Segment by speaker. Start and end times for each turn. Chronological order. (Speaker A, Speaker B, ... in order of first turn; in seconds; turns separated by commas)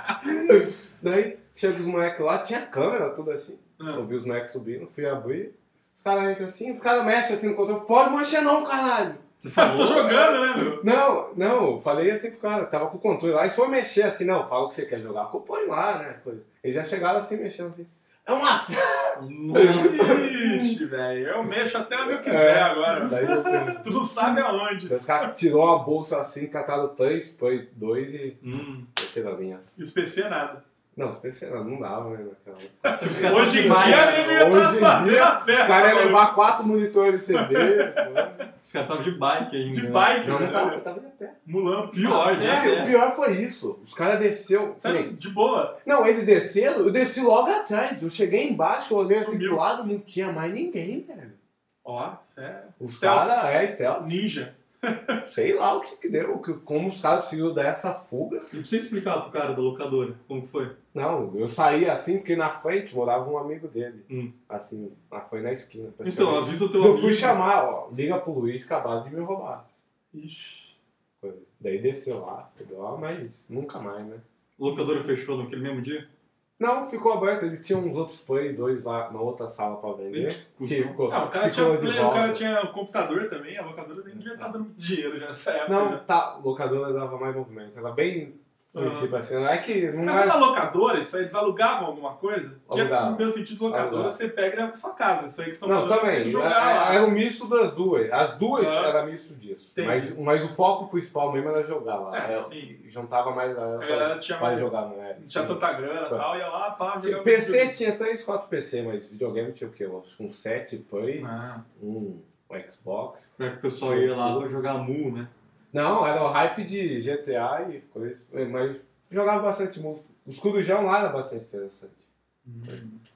Speaker A: 0.2-9.2, Speaker B: 9.4-10.3, Speaker C: 9.5-10.8, Speaker A: 10.1-20.8, Speaker B: 19.1-20.3, Speaker C: 19.5-25.3, Speaker A: 22.0-24.0, Speaker A: 24.9-28.4, Speaker B: 28.4-28.9, Speaker A: 28.9-29.6, Speaker C: 29.8-30.6, Speaker A: 30.9-38.4, Speaker C: 32.8-36.3, Speaker B: 33.0-34.4, Speaker C: 37.3-38.2, Speaker B: 38.6-40.4, Speaker C: 39.7-40.8, Speaker A: 40.2-41.4, Speaker C: 41.5-42.9, Speaker B: 41.9-42.9, Speaker A: 42.0-45.1, Speaker C: 44.8-45.8, Speaker A: 45.8-51.4, Speaker C: 49.2-49.6, Speaker C: 51.8-55.2, Speaker A: 52.8-54.2, Speaker A: 55.2-58.5, Speaker B: 58.5-60.7, Speaker A: 60.9-69.6, Speaker B: 66.0-67.4, Speaker C: 70.1-70.7, Speaker A: 71.2-74.2, Speaker B: 74.6-76.0, Speaker C: 74.7-75.0, Speaker A: 76.6-82.4, Speaker B: 80.1-81.0, Speaker C: 81.1-86.0, Speaker A: 84.1-84.5, Speaker A: 85.7-90.4, Speaker C: 88.7-89.1, Speaker C: 90.0-97.2, Speaker A: 92.7-94.2, Speaker A: 95.6-106.2, Speaker C: 98.5-98.9, Speaker C: 99.7-100.1, Speaker C: 102.1-102.7, Speaker C: 103.8-107.7, Speaker A: 107.0-113.2, Speaker C: 111.2-111.6, Speaker B: 113.4-115.3, Speaker A: 113.8-114.5, Speaker A: 115.7-122.0, Speaker C: 122.4-123.0